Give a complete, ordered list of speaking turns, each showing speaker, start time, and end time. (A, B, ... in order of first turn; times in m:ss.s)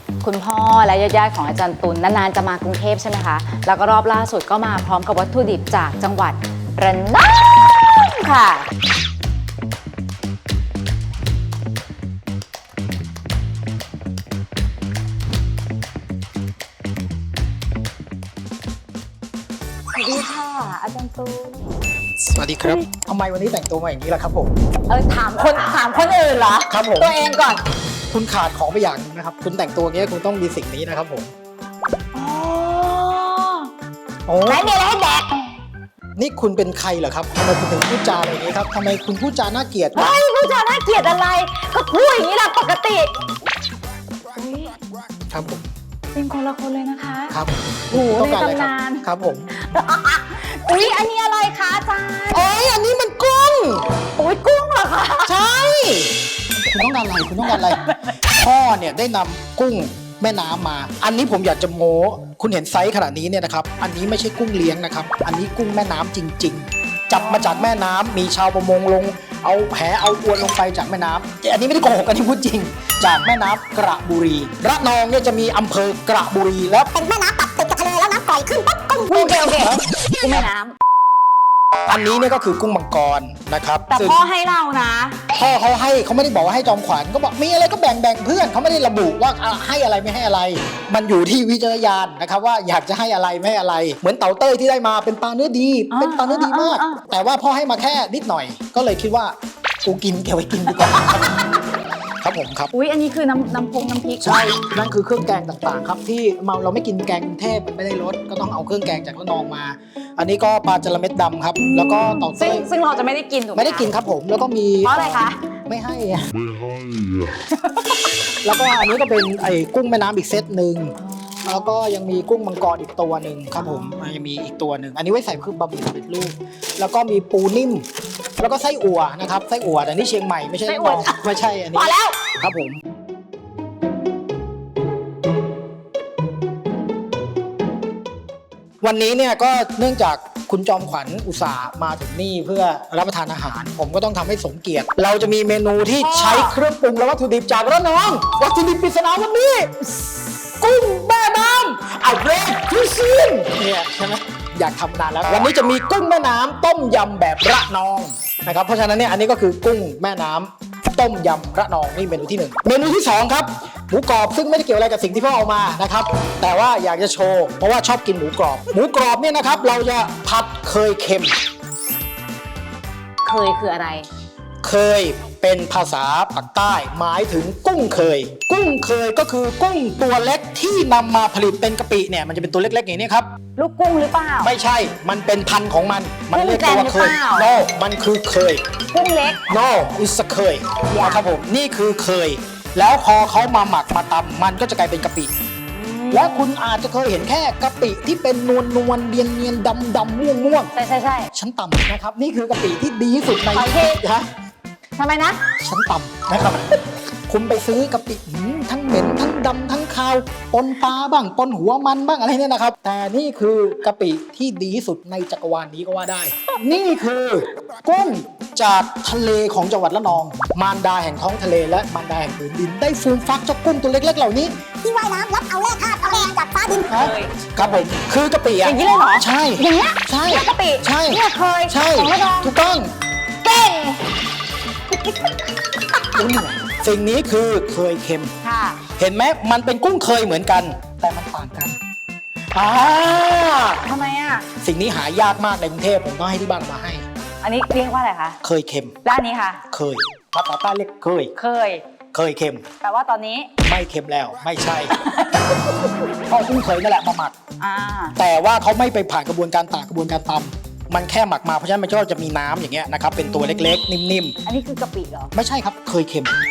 0:00.2-0:08.7 A
0:19.9-0:21.7 A
0:22.2-0:24.5 B
0:24.9-0:27.6 A
0:26.7-0:27.1 B
0:28.1-0:31.3 B
0:32.1-0:33.7 A
0:34.3-0:34.7 B
0:34.4-0:35.3 A
0:36.2-0:40.2 B
0:39.9-0:43.1 A
0:44.3-0:44.8 A
0:45.3-0:45.7 B
0:46.1-0:47.4 A
0:47.3-0:49.5 B
0:47.9-0:52.5 A
0:52.3-0:53.9 B
0:54.0-0:55.4 A
0:55.2-1:17.0 B
0:57.4-0:58.2 A
1:07.1-1:07.7 A
1:16.9-1:19.1 C
1:18.9-1:20.7 A
1:19.0-1:20.5 B
1:21.9-1:24.2 B
1:23.9-1:25.2 A
1:25.3-1:41.4 B
1:35.9-1:37.0 A
1:40.7-1:41.4 A
1:42.2-1:42.7 B
1:42.7-1:44.6 A
1:44.2-1:52.7 B
1:51.6-1:53.9 A
1:53.5-1:56.2 B
1:54.8-1:55.4 A
1:57.5-1:57.8 A
1:58.4-2:07.8 B
2:01.0-2:01.7 A
2:03.6-2:04.0 A
2:08.4-2:12.8 B
2:10.6-2:12.2 A
2:18.8-2:29.7 B
2:26.0-2:26.6 A
2:30.6-2:51.3 B
2:53.2-2:54.0 A
2:54.6-3:03.3 B
3:03.6-3:04.5 A
3:04.4-3:08.6 B
3:06.3-3:07.5 A
3:08.9-3:09.4 A
3:09.5-3:15.3 B
3:10.9-3:11.2 A
3:15.7-3:16.4 A
3:16.1-3:20.7 B
3:20.7-3:21.3 A
3:21.3-3:24.3 B
3:23.5-3:24.0 A
3:25.0-3:25.4 A
3:25.6-3:44.6 B
3:44.8-3:46.9 C
3:46.8-3:47.3 A
3:46.9-3:52.9 B
3:48.6-3:52.5 A
3:53.4-3:54.1 A
3:54.9-3:55.4 A
3:55.9-3:56.2 A
3:56.1-3:58.3 B
3:58.4-3:58.8 A
3:59.0-4:01.8 B
4:02.5-4:03.8 B
4:03.8-4:04.4 A
4:04.6-4:07.0 B
4:07.4-4:08.4 A
4:08.4-4:09.0 B
4:09.0-4:09.6 A
4:09.7-4:11.3 B
4:11.3-4:11.8 A
4:12.1-4:12.6 B
4:12.8-4:13.5 A
4:13.6-4:14.9 B
4:14.9-4:15.9 A
4:16.3-4:17.3 B
4:17.6-4:18.2 A
4:18.2-4:24.4 B
4:24.4-4:25.3 A
4:25.3-4:26.3 B